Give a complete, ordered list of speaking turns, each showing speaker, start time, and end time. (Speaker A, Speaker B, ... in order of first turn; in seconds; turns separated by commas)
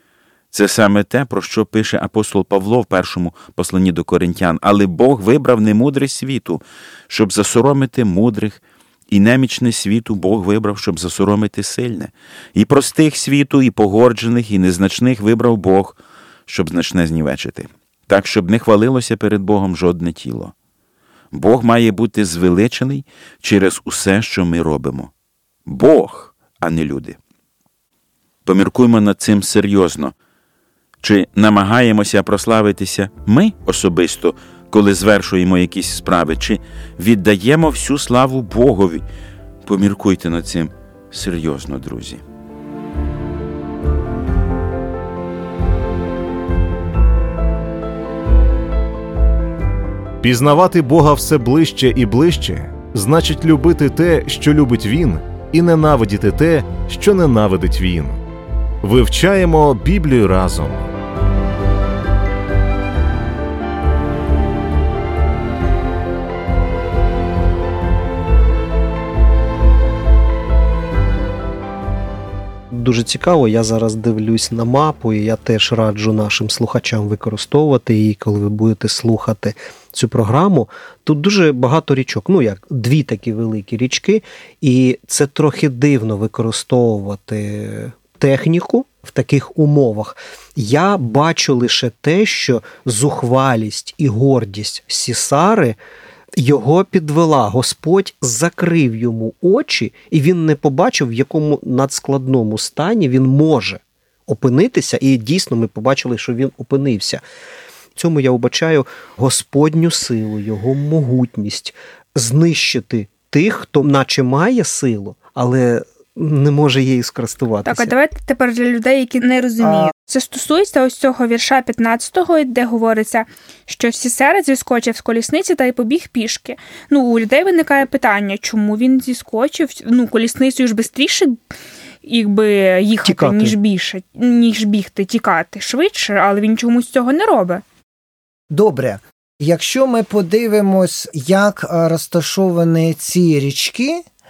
Speaker A: 0.5-20.5, Speaker A: 21.3-25.1, Speaker A: 25.6-27.2, Speaker A: 28.4-30.1, Speaker A: 31.0-39.0, Speaker A: 39.6-42.2, Speaker B: 50.2-58.2, Speaker B: 58.8-60.9, Speaker C: 72.7-95.8, Speaker C: 96.4-107.2, Speaker C: 108.0-117.9, Speaker D: 117.7-131.4, Speaker E: 119.6-119.9, Speaker D: 132.0-137.6, Speaker C: 133.0-133.5, Speaker E: 138.5-144.0